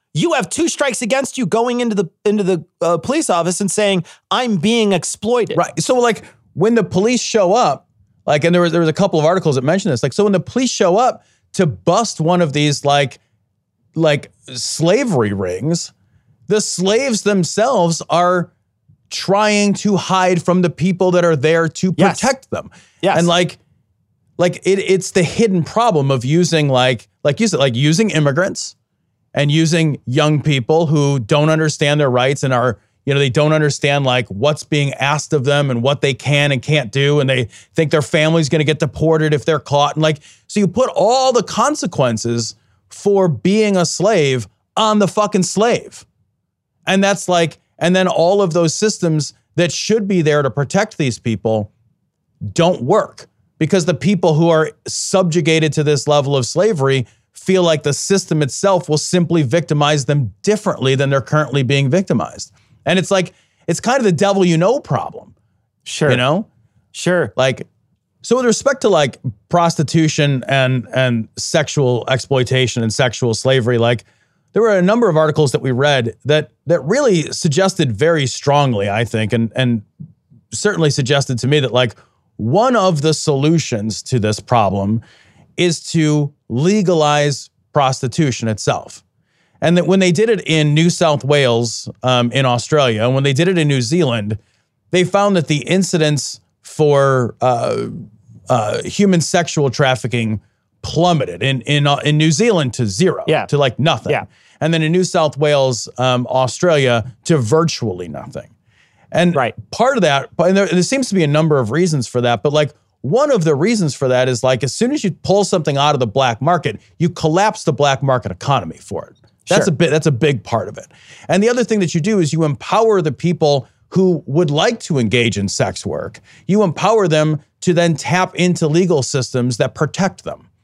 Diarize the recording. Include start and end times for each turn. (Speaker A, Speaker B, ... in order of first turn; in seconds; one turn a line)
Speaker A: 0.1-5.6
Speaker B: 5.5-13.2
Speaker B: 13.9-15.9
Speaker B: 16.5-18.5
Speaker B: 19.1-23.6
Speaker A: 22.0-22.3
Speaker A: 23.0-23.3
Speaker B: 24.4-28.7
Speaker B: 29.3-46.0
Speaker B: 46.9-51.7
Speaker B: 52.5-65.3
Speaker A: 65.8-66.2
Speaker B: 66.1-66.5
Speaker A: 66.9-67.3
Speaker B: 67.3-67.7
Speaker B: 68.2-79.9
Speaker B: 80.5-85.0
Speaker B: 85.6-89.0
Speaker B: 89.6-94.4
Speaker B: 94.9-108.5
Speaker B: 109.1-130.4